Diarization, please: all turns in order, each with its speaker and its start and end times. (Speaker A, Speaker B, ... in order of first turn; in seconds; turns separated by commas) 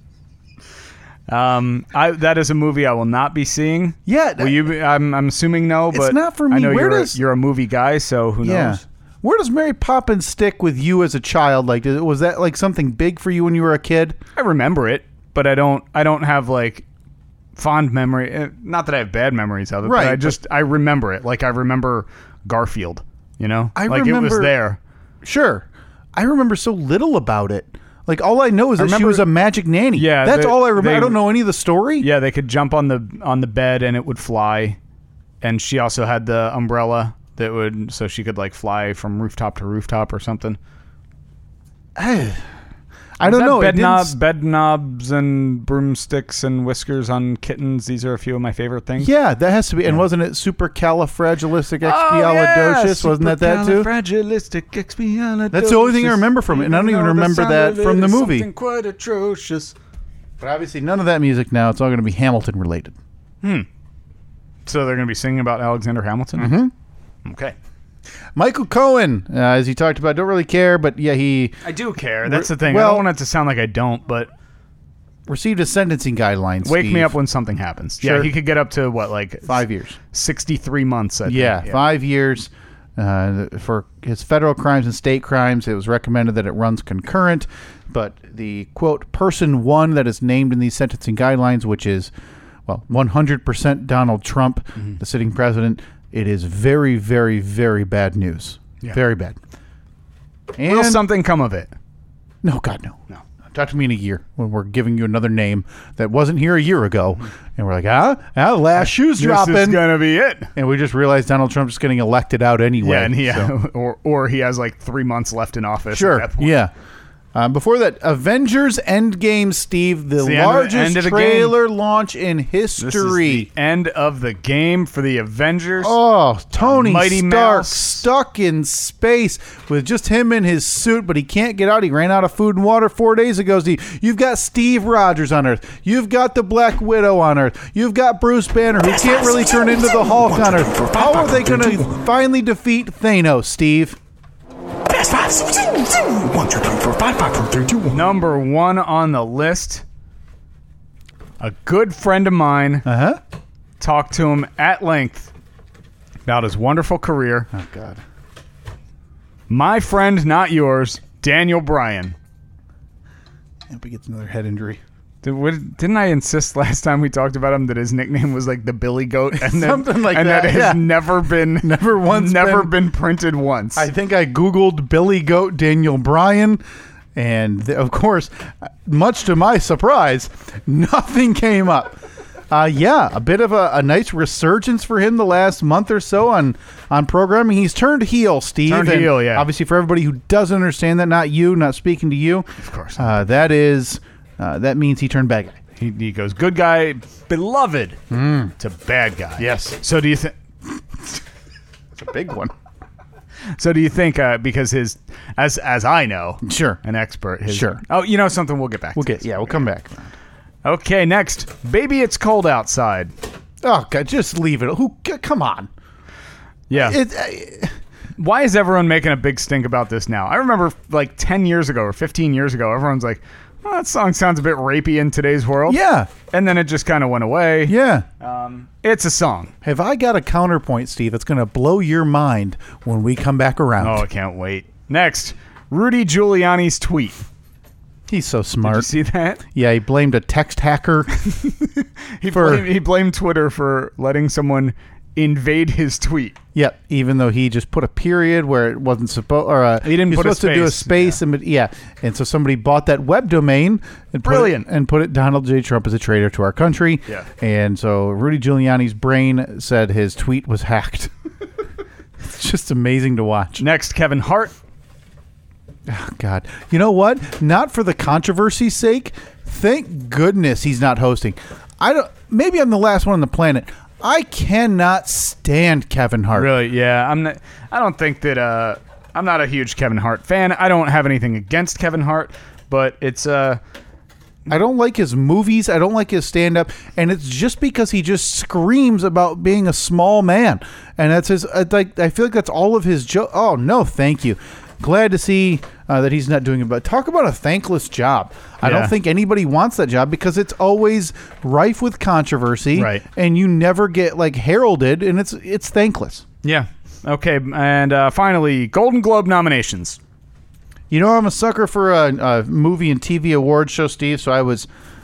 Speaker A: 1.3-8.8, Speaker B: 4.1-4.6, Speaker B: 5.9-7.2, Speaker B: 8.4-14.2, Speaker A: 14.4-16.9, Speaker A: 17.6-24.8, Speaker B: 19.8-20.4, Speaker B: 23.8-24.5, Speaker B: 25.2-32.1, Speaker A: 28.8-29.2, Speaker A: 29.9-31.2, Speaker A: 32.0-34.8, Speaker A: 35.4-40.6, Speaker B: 42.0-42.4, Speaker B: 43.2-44.1, Speaker A: 43.2-49.1, Speaker B: 49.0-53.9, Speaker A: 51.8-59.8, Speaker B: 55.5-58.5, Speaker B: 60.4-63.0, Speaker A: 63.4-63.7, Speaker A: 64.7-66.6, Speaker B: 66.4-66.7, Speaker A: 67.2-67.5, Speaker B: 68.4-71.6, Speaker A: 71.6-74.3, Speaker B: 72.2-73.1, Speaker B: 75.3-77.1, Speaker A: 76.6-81.8, Speaker B: 78.0-78.3, Speaker B: 79.5-80.0, Speaker B: 81.3-92.1, Speaker B: 92.7-99.4, Speaker B: 100.6-101.0, Speaker A: 100.7-101.7, Speaker B: 102.4-109.9, Speaker A: 108.8-110.5, Speaker B: 110.5-113.5, Speaker A: 112.8-116.6, Speaker B: 115.9-116.7, Speaker B: 117.3-123.5, Speaker A: 120.2-121.6, Speaker A: 122.8-126.0, Speaker B: 125.8-144.0, Speaker A: 126.6-128.1, Speaker C: 138.8-142.0, Speaker C: 144.9-148.1, Speaker A: 147.9-149.8, Speaker A: 151.4-152.9, Speaker B: 152.8-153.2, Speaker A: 153.8-155.3, Speaker A: 156.3-157.5, Speaker B: 157.5-158.0, Speaker A: 159.5-162.2, Speaker B: 163.7-164.8, Speaker A: 165.2-173.9, Speaker B: 169.4-170.9, Speaker B: 171.5-172.7, Speaker B: 173.8-176.6, Speaker B: 177.2-182.0, Speaker B: 182.5-192.5, Speaker A: 188.7-189.5, Speaker A: 192.6-193.2, Speaker B: 193.0-195.6, Speaker A: 195.8-198.0, Speaker B: 198.1-198.6, Speaker A: 198.6-200.3, Speaker B: 199.4-199.8, Speaker B: 202.0-202.5, Speaker A: 203.6-209.5, Speaker B: 206.4-206.8, Speaker B: 207.5-207.8, Speaker B: 209.0-210.1, Speaker A: 210.7-213.1, Speaker B: 213.6-215.7, Speaker A: 216.7-217.0, Speaker B: 216.7-217.8, Speaker A: 218.2-229.5, Speaker B: 225.7-226.1, Speaker B: 227.7-228.1, Speaker B: 229.6-234.0, Speaker A: 233.8-237.3, Speaker B: 238.1-238.9, Speaker A: 238.6-239.4, Speaker B: 239.4-241.1, Speaker A: 241.2-246.4, Speaker B: 242.3-242.7, Speaker B: 246.6-261.1, Speaker A: 249.8-251.2, Speaker A: 254.2-254.7, Speaker B: 262.2-263.6, Speaker A: 263.6-264.6, Speaker B: 265.9-276.5, Speaker A: 276.3-283.6, Speaker B: 284.5-306.2, Speaker A: 298.6-298.9, Speaker A: 302.8-303.0, Speaker A: 306.4-310.0, Speaker B: 310.9-314.7